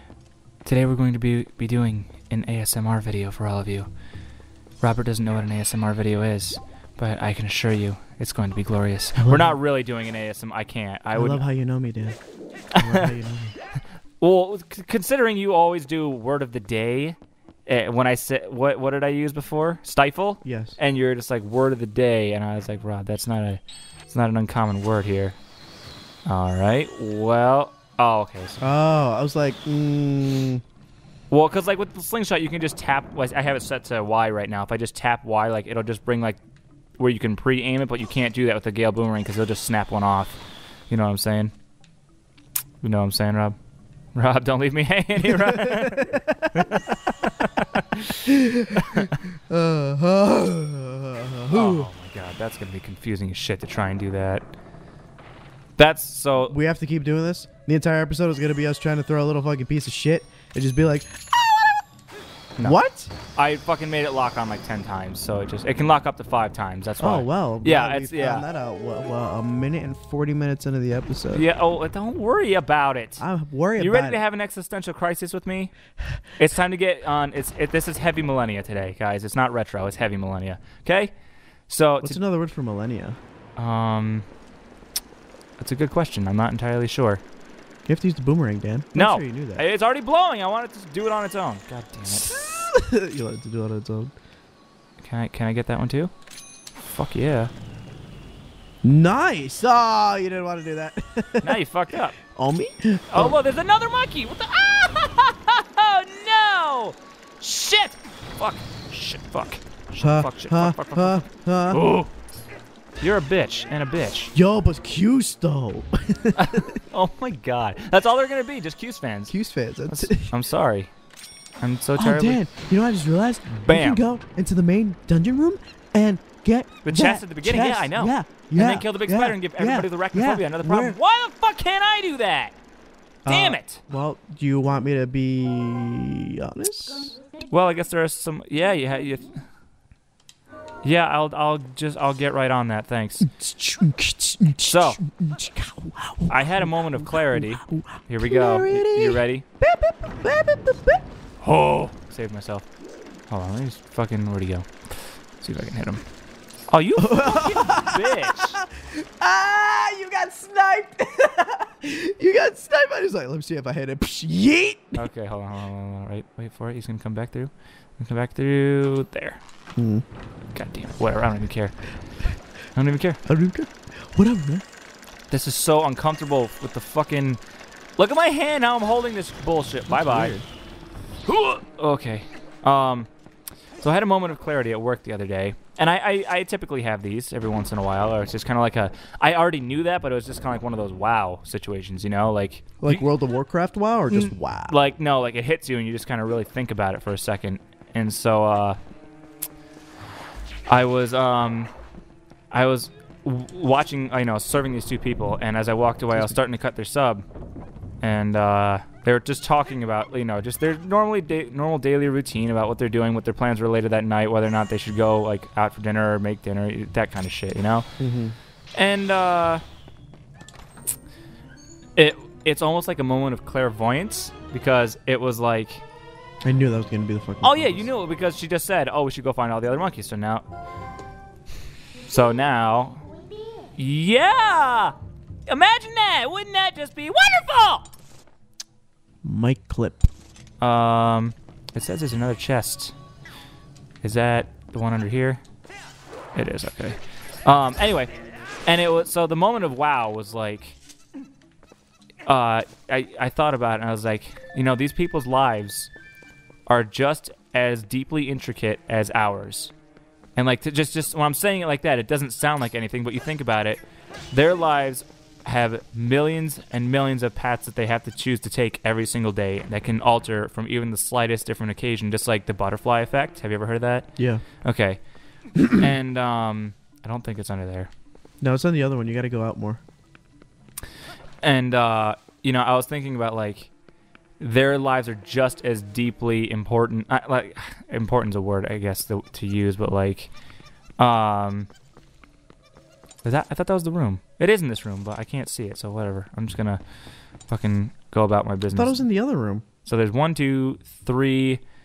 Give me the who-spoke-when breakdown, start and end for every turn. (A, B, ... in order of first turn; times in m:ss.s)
0:00.6-0:03.9 A
0:04.8-0:11.4 A
0:09.2-0:09.6 B
0:11.1-0:12.2 B
0:12.8-0:13.1 A
0:12.8-0:13.6 B
0:14.2-0:25.4 A
0:20.4-0:20.8 B
0:26.2-0:28.7 A
0:28.6-0:30.6 B
0:31.3-0:36.4 A
0:37.0-0:41.5 A
0:42.8-0:43.6 A
0:44.1-0:49.1 A
0:45.2-0:46.8 B
0:48.2-0:51.9 B
0:51.5-0:54.5 A
0:55.8-0:56.6 A
0:56.5-1:01.8 B
1:02.6-1:03.1 B
1:03.3-1:08.5 A
1:07.0-1:11.4 B
1:11.3-1:13.2 A
1:13.2-1:14.2 B
1:13.8-1:15.7 A
1:16.3-1:21.1 A
1:21.7-1:22.2 A
1:22.0-1:23.2 B
1:23.6-1:24.2 A
1:25.6-1:27.2 A
1:27.8-1:29.6 B
1:28.9-1:32.3 A
1:32.1-1:34.1 B
1:35.0-1:36.1 A
1:36.8-1:37.5 A
1:38.8-1:41.6 B
1:41.4-1:42.2 A
1:42.2-1:43.4 B
1:43.1-1:52.1 A
1:50.0-1:51.8 B
1:53.0-1:54.3 A
1:54.3-1:56.8 B
1:56.4-1:59.3 A
1:59.3-2:00.3 B
1:59.9-2:00.9 A
2:01.6-2:02.4 A
2:02.0-2:11.0 B
2:03.5-2:04.0 A
2:06.8-2:12.6 A
2:13.2-2:17.2 B
2:13.2-2:13.8 A
2:17.5-2:19.3 A
2:20.8-2:23.3 A
2:23.2-2:31.0 B
2:24.6-2:25.0 A
2:26.3-2:29.4 A
2:31.4-2:32.6 A
2:33.3-2:36.0 A
2:36.7-2:38.6 A
2:37.0-2:45.0 B
2:44.9-2:49.4 A
2:49.8-2:50.0 B
2:50.5-2:51.8 A
2:52.7-2:53.2 A
2:53.2-2:54.6 B
2:55.3-2:57.4 A
2:58.0-3:00.4 A
2:59.9-3:00.4 B
3:01.2-3:03.1 A
3:03.8-3:13.1 A
3:12.8-3:14.8 B
3:14.1-3:18.8 A
3:20.7-3:21.7 A
3:22.5-3:27.2 A
3:26.1-3:26.4 B
3:28.0-3:37.9 A
3:38.0-3:38.4 B
3:38.7-3:39.6 A
3:42.0-3:45.8 A
3:46.4-3:47.9 B
3:47.4-3:50.4 A
3:52.1-3:53.0 A
3:53.8-3:54.9 A
3:55.5-3:57.9 A
3:59.2-4:00.1 B
4:00.6-4:02.9 A
4:04.0-4:05.4 A
4:06.3-4:08.1 A
4:08.6-4:10.8 A
4:12.2-4:15.9 A
4:16.7-4:19.7 A
4:20.4-4:23.8 A
4:24.3-4:34.1 A
4:34.2-4:34.4 B
4:34.6-4:35.0 A
4:35.6-4:37.9 A
4:38.4-4:39.8 B
4:41.4-4:43.7 A
4:44.4-4:50.3 A
4:51.0-4:51.7 A
4:53.2-4:56.8 A
4:57.5-4:59.0 A
4:58.7-4:59.6 B
4:59.8-5:01.6 A